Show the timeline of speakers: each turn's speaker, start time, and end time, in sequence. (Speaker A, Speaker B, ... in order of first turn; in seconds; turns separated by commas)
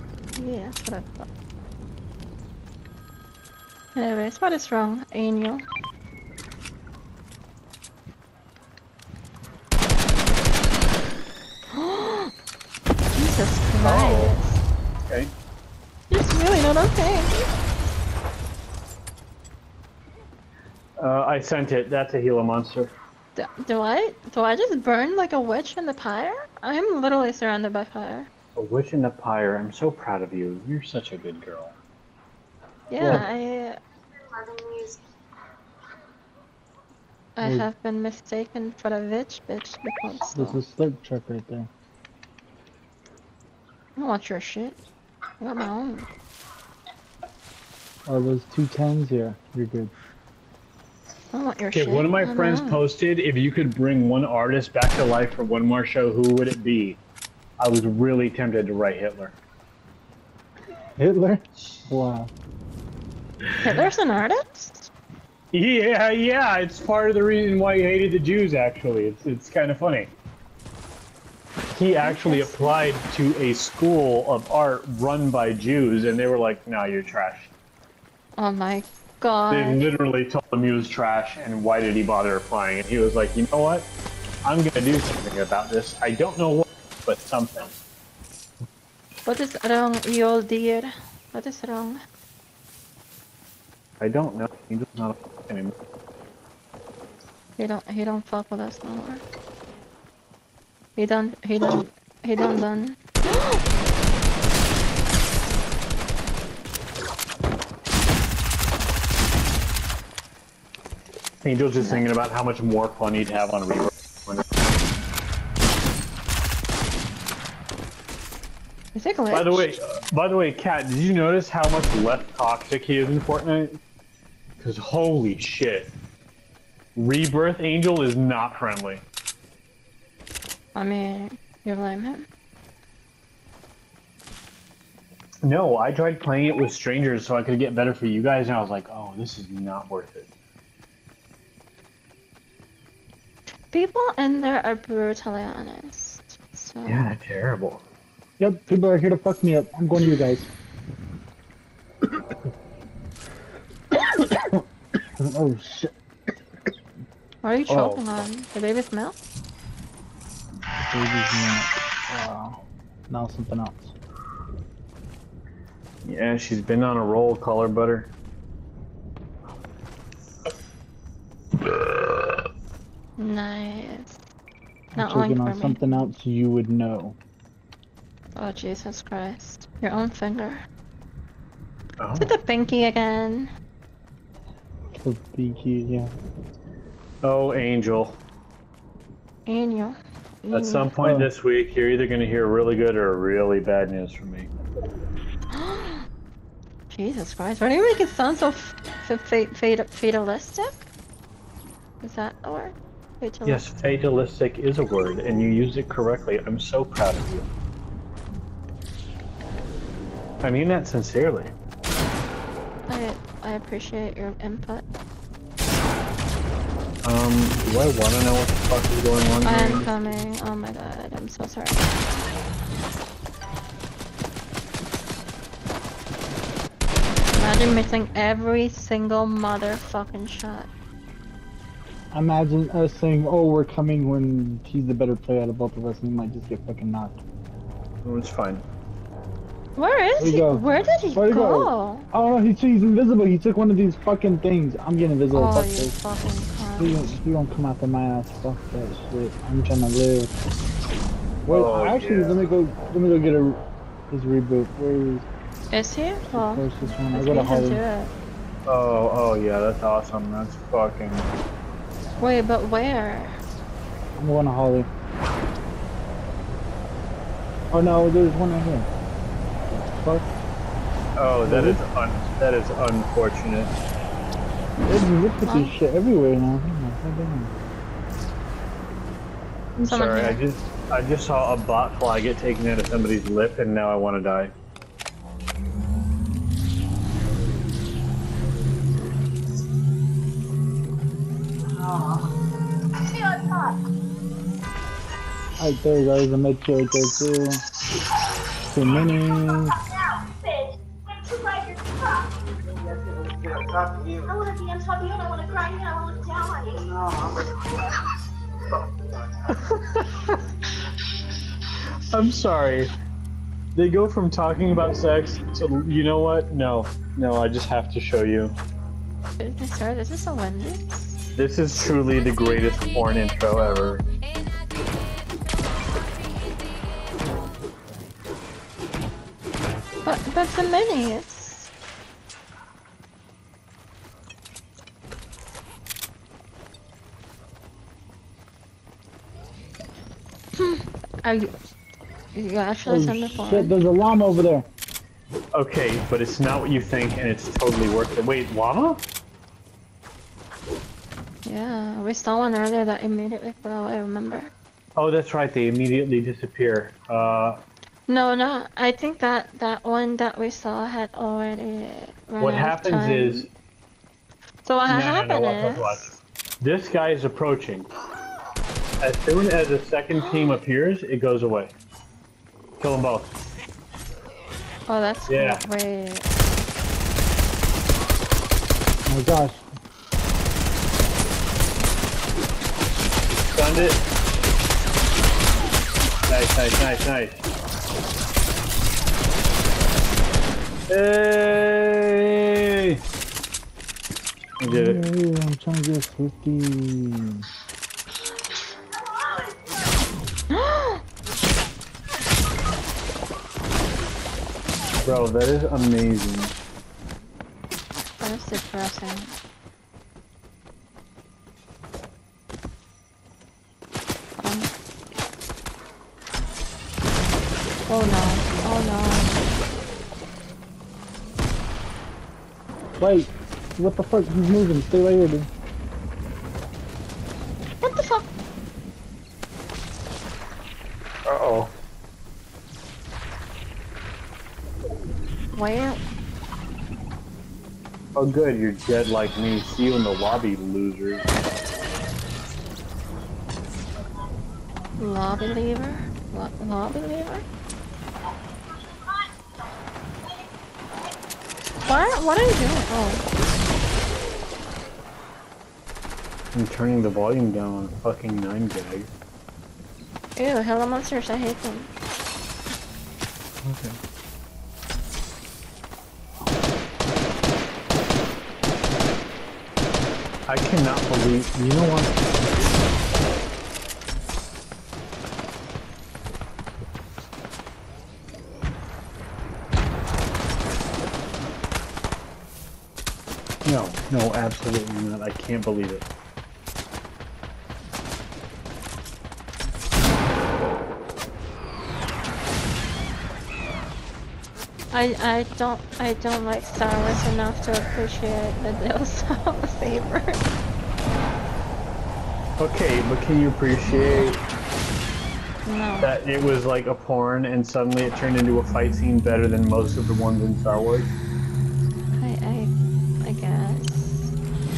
Speaker A: 0.3-1.3, Speaker A: 3.9-5.6, Speaker A: 11.7-12.3, Speaker A: 13.1-14.6, Speaker B: 13.8-14.3, Speaker A: 16.1-17.3, Speaker B: 21.0-22.9, Speaker A: 23.4-28.3, Speaker B: 28.5-31.7, Speaker A: 32.9-33.8, Speaker C: 33.0-33.3, Speaker B: 33.0-33.3, Speaker A: 34.6-34.9, Speaker A: 37.4-40.6, Speaker C: 37.4-37.7, Speaker C: 40.3-41.7, Speaker A: 44.0-44.8, Speaker A: 45.4-46.1, Speaker C: 48.1-49.9, Speaker A: 51.3-52.8, Speaker B: 51.7-57.0, Speaker B: 57.6-59.4, Speaker C: 61.0-62.3, Speaker A: 63.6-64.9, Speaker B: 65.5-70.1, Speaker B: 71.7-77.5, Speaker A: 72.0-72.8, Speaker A: 78.4-79.8, Speaker B: 79.5-83.9, Speaker B: 84.4-87.8, Speaker A: 89.2-92.0, Speaker B: 94.0-95.7, Speaker A: 97.6-99.2, Speaker A: 101.0-103.6, Speaker B: 111.4-114.4, Speaker A: 111.8-112.0, Speaker A: 118.9-119.8, Speaker B: 119.3-123.8, Speaker B: 124.6-125.9, Speaker B: 127.0-129.0, Speaker A: 130.8-132.2, Speaker B: 135.4-140.3, Speaker A: 143.7-147.0, Speaker B: 146.8-147.8, Speaker C: 148.4-150.5, Speaker C: 153.9-154.6, Speaker C: 155.2-155.9, Speaker A: 157.4-159.2, Speaker B: 157.7-158.3, Speaker C: 160.8-163.9, Speaker B: 166.0-168.1, Speaker A: 173.2-174.2, Speaker C: 174.9-177.2, Speaker A: 174.9-175.8, Speaker A: 178.3-180.6, Speaker B: 182.0-182.3, Speaker A: 182.2-183.5, Speaker C: 185.0-186.1, Speaker B: 187.2-188.2, Speaker A: 189.4-190.9, Speaker B: 190.5-194.5, Speaker C: 191.0-191.3, Speaker A: 195.5-196.1, Speaker A: 196.9-200.8, Speaker A: 202.0-203.6, Speaker B: 203.4-207.5, Speaker B: 210.4-211.5, Speaker A: 212.9-214.8, Speaker B: 217.0-220.0, Speaker A: 219.4-221.9, Speaker A: 227.3-230.7, Speaker C: 232.1-237.2, Speaker B: 238.0-238.6, Speaker A: 239.8-242.0, Speaker C: 240.2-245.9, Speaker A: 245.3-247.2, Speaker C: 246.8-250.3, Speaker C: 251.4-255.3, Speaker B: 251.5-252.4, Speaker A: 255.7-258.1, Speaker C: 256.3-257.8, Speaker B: 258.7-261.3, Speaker A: 262.2-263.4, Speaker C: 264.2-264.9, Speaker C: 267.7-268.9, Speaker C: 269.7-270.3, Speaker B: 271.1-273.7, Speaker C: 271.4-271.8, Speaker C: 274.8-277.5, Speaker A: 275.4-275.7, Speaker B: 279.8-284.5, Speaker A: 279.8-280.4, Speaker C: 295.6-297.6, Speaker C: 298.7-299.8, Speaker D: 301.4-301.7, Speaker D: 304.3-306.9, Speaker B: 309.5-310.4, Speaker B: 312.1-312.9, Speaker B: 313.7-318.5, Speaker A: 319.4-321.2, Speaker B: 321.4-324.0, Speaker A: 330.0-331.7, Speaker A: 340.6-341.5, Speaker A: 342.3-343.7, Speaker C: 342.9-344.6, Speaker B: 345.5-349.0, Speaker A: 351.4-354.5, Speaker B: 354.9-357.6, Speaker A: 358.1-363.5, Speaker B: 362.4-363.5, Speaker A: 364.6-366.1, Speaker B: 364.9-366.1, Speaker B: 366.6-367.9, Speaker B: 369.0-371.7, Speaker A: 370.1-370.6, Speaker B: 372.8-373.3, Speaker A: 374.9-376.2, Speaker B: 375.3-375.6, Speaker C: 379.1-379.6, Speaker B: 383.3-384.0, Speaker B: 386.3-387.4, Speaker B: 390.9-393.0, Speaker B: 394.6-395.0, Speaker C: 394.6-397.5, Speaker A: 400.5-401.0, Speaker B: 405.0-406.5, Speaker A: 408.2-409.3, Speaker A: 414.4-414.7, Speaker A: 417.9-419.4, Speaker C: 423.0-425.5, Speaker A: 427.8-428.3, Speaker B: 431.2-431.7, Speaker A: 435.5-436.0, Speaker B: 438.1-441.3, Speaker A: 445.0-447.4, Speaker A: 451.8-453.2, Speaker B: 456.5-459.1, Speaker A: 460.4-461.9, Speaker B: 463.6-464.0, Speaker B: 470.5-472.2, Speaker B: 483.6-486.1, Speaker A: 494.9-500.4, Speaker B: 502.6-504.4, Speaker A: 505.6-506.1, Speaker B: 506.0-511.1, Speaker A: 512.1-512.7, Speaker A: 513.2-514.3